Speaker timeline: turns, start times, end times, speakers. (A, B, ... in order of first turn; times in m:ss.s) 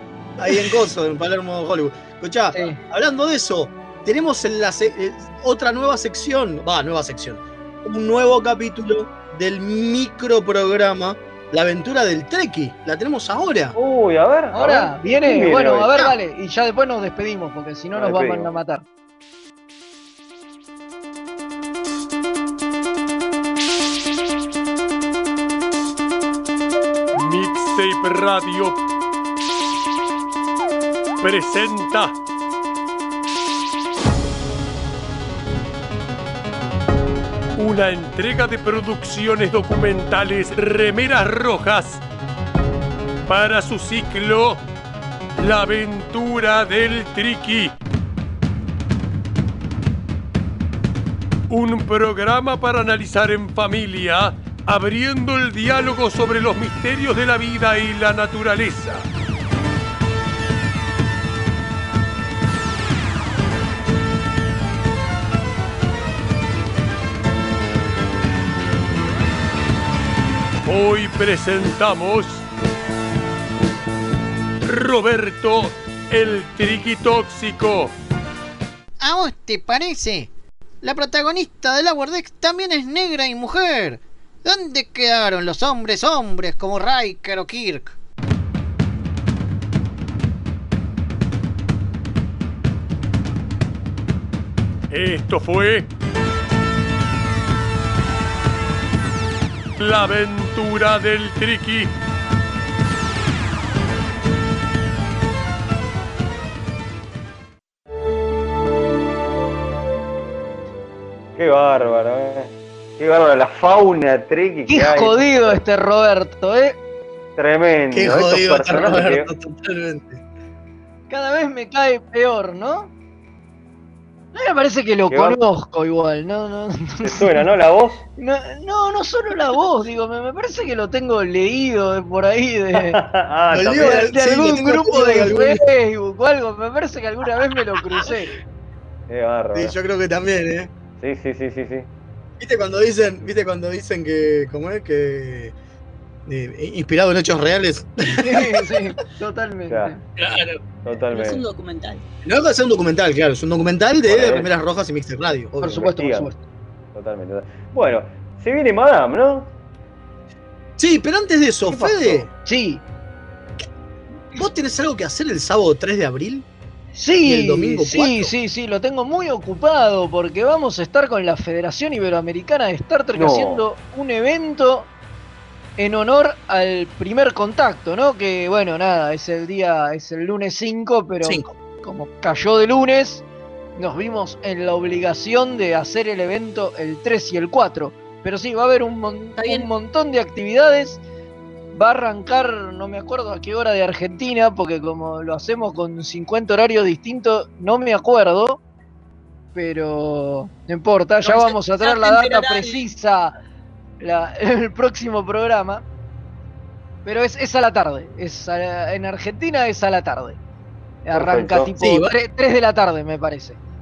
0:00.4-0:13.7 A
0:02.5-0:02.8 B
0:13.7-0:16.1 C
0:14.5-0:18.8 B
0:17.9-0:18.5 C
0:27.1-0:28.8 D
0:31.2-0:32.1 D
0:37.6-0:42.0 D
0:43.3-0:44.6 D
0:45.4-0:47.7 D
0:51.5-0:59.0 D
1:10.6-1:12.4 D
1:14.6-1:17.9 D
1:19.0-1:20.3 E
1:20.8-1:28.0 E
1:34.9-1:35.9 D
1:39.8-1:41.9 D
1:51.4-1:55.6 C
1:54.7-1:56.8 B
1:57.4-1:59.3 C
1:57.9-2:00.2 A
2:01.1-2:02.9 B
2:04.3-2:07.4 B
2:05.1-2:05.4 C
2:07.0-2:08.0 C
2:08.2-2:13.0 B
2:12.8-2:14.1 C
2:13.5-2:15.6 A
2:13.8-2:18.3 B
2:19.1-2:19.7 C
2:19.5-2:20.7 A
2:21.0-2:21.9 C
2:22.4-2:25.5 A
2:26.2-2:28.8 A
2:28.2-2:30.0 B
2:29.7-2:29.9 C
2:30.2-2:30.6 A
2:30.8-2:31.4 C
2:31.1-2:32.0 F
2:32.2-2:35.8 A
2:34.0-2:34.5 C
2:35.6-2:36.4 B
2:35.6-2:36.3 C
2:36.9-2:39.5 C
2:40.8-2:42.3 A
2:41.7-2:42.3 C
2:42.4-2:42.8 B
2:44.3-2:46.4 A
2:46.9-2:54.9 B
2:47.2-2:48.3 A
2:53.1-2:53.6 C
2:55.8-3:03.2 B
3:01.2-3:01.5 A
3:03.8-3:11.0 B
3:09.4-3:09.7 F
3:11.7-3:18.6 B
3:19.5-3:23.3 B
3:21.2-3:22.8 F
3:24.0-3:25.8 B
3:27.0-3:30.4 B
3:31.0-3:33.6 B
3:31.1-3:31.7 C
3:31.8-3:32.1 A